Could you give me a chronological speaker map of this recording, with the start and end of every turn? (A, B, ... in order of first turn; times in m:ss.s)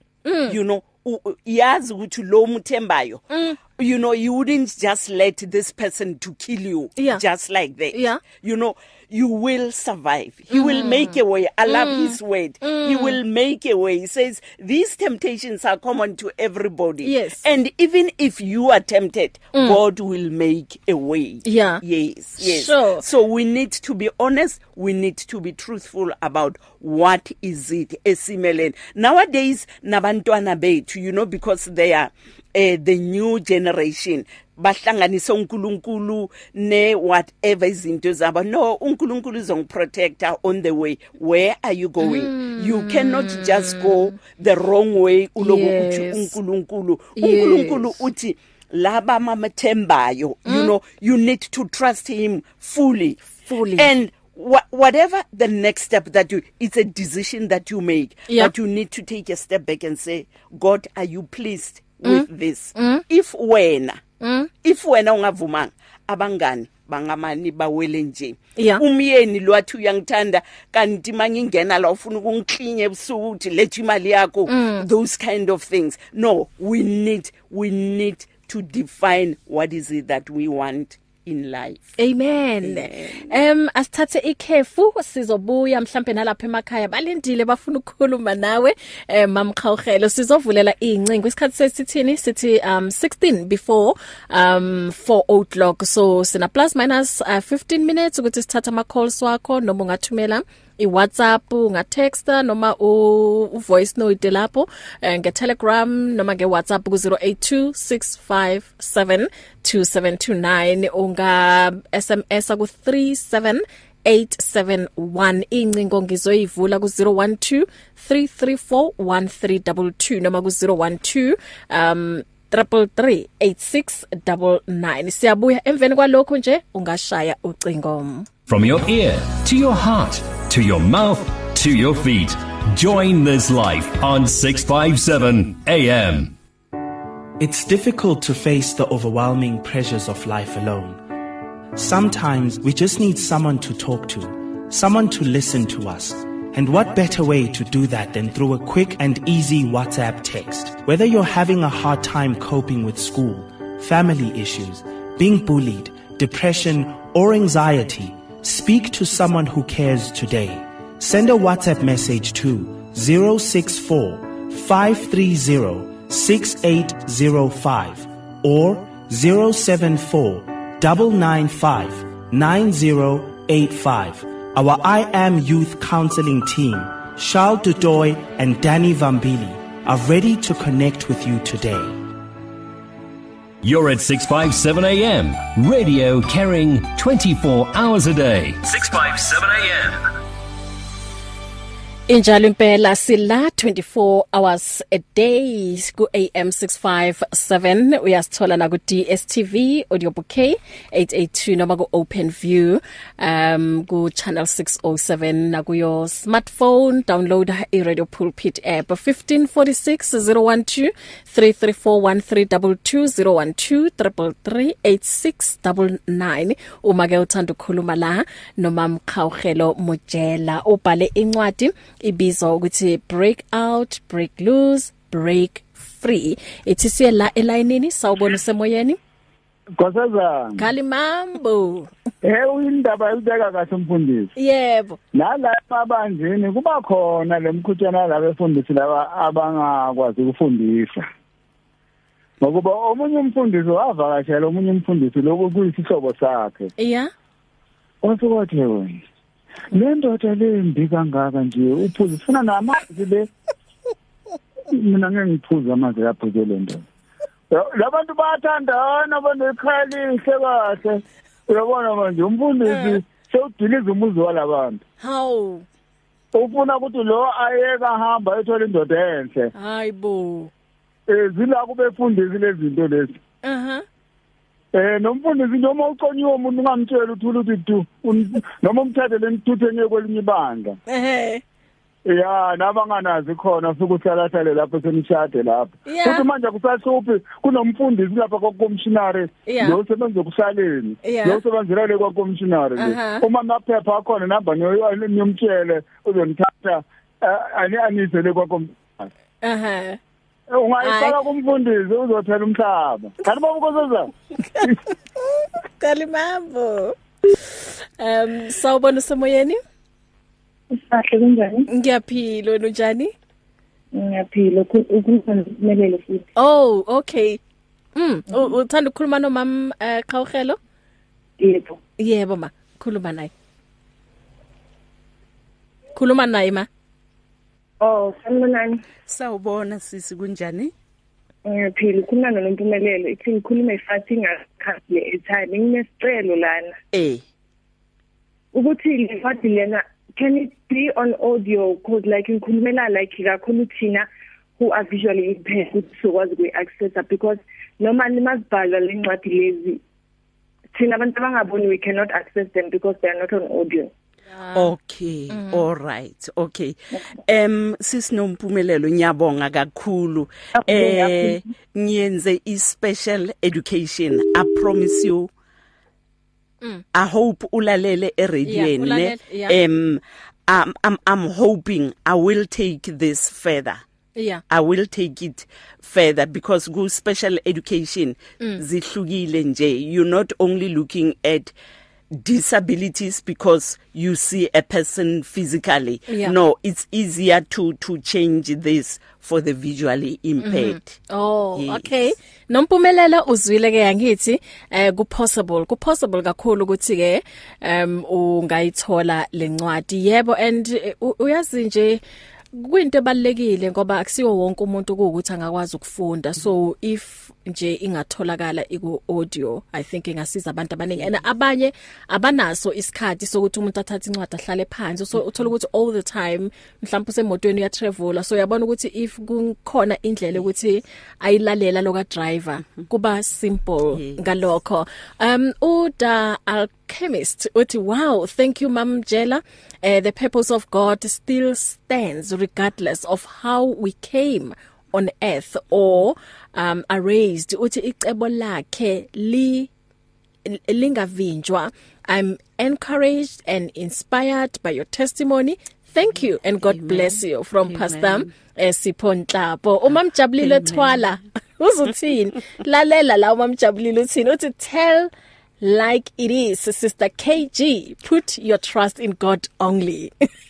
0:00.2-0:00.6 A
0:00.5-1:04.0 B
0:03.3-0:03.6 A
0:07.0-0:07.2 A
0:07.9-0:08.2 A
0:10.5-0:13.2 A
0:17.0-0:17.4 A
0:19.5-0:19.8 A
0:21.4-0:21.8 A
0:22.4-0:23.0 A
0:42.0-0:44.1 A
0:45.4-0:46.4 A
0:47.2-0:48.0 A
0:50.5-0:50.7 A
0:53.4-0:53.9 A
1:02.0-1:03.0 A
1:04.2-1:04.5 A
1:04.6-1:22.0 B
1:08.6-1:08.8 A
1:14.5-1:14.9 A
1:22.0-2:08.3 A
1:22.6-1:23.4 B
2:08.5-2:16.3 C
2:17.4-2:21.0 D
2:21.8-3:02.0 D
3:03.6-3:10.1 C
3:12.1-3:49.0 A
3:49.8-3:50.7 E
3:50.6-3:51.9 A
3:52.2-3:54.3 E
3:54.4-3:55.0 A
3:55.1-4:01.1 E
4:02.4-4:06.7 E
4:06.8-4:07.1 A
4:08.0-4:09.0 E
4:09.7-4:13.3 E
4:14.7-4:16.8 E
4:17.5-4:24.8 E
4:22.6-4:23.0 A
4:25.0-4:25.6 A
4:26.3-4:29.5 E
4:29.6-4:30.5 A
4:31.1-4:33.2 E
4:33.4-4:33.8 A
4:34.7-4:40.8 E
4:40.9-4:41.4 A
4:42.1-4:59.1 E
4:45.9-4:46.3 A
4:49.5-4:49.8 A
4:51.0-4:51.4 A
4:52.8-4:53.2 A
4:59.4-5:00.0 A
5:00.5-5:04.7 E
5:00.8-5:01.2 A
5:04.5-5:09.6 A
5:10.7-5:11.7 F
5:11.7-5:13.1 A
5:13.9-5:16.3 F
5:16.4-5:17.4 A
5:18.0-5:20.6 A
5:21.4-5:21.8 F
5:22.0-5:23.3 A
5:26.0-5:26.7 A
5:27.8-5:28.8 F
5:29.1-5:30.7 B
5:31.4-5:36.8 F
5:36.9-5:37.2 B
5:38.5-5:49.8 F
5:50.7-5:53.9 F
5:54.4-5:54.7 A
5:54.5-6:05.3 B
5:55.3-5:55.6 A
6:00.6-6:01.4 F
6:06.9-6:13.8 B
6:08.4-6:09.6 A
6:14.2-6:14.4 A
6:14.5-6:21.5 B
6:22.1-6:31.0 B
6:26.1-6:26.4 A
6:30.4-6:42.0 A
6:31.6-6:32.1 B
6:42.5-7:19.7 A
7:03.9-7:04.3 B
7:20.4-7:35.1 A
7:26.6-7:28.3 B
7:30.4-7:31.1 B
7:35.6-7:40.1 A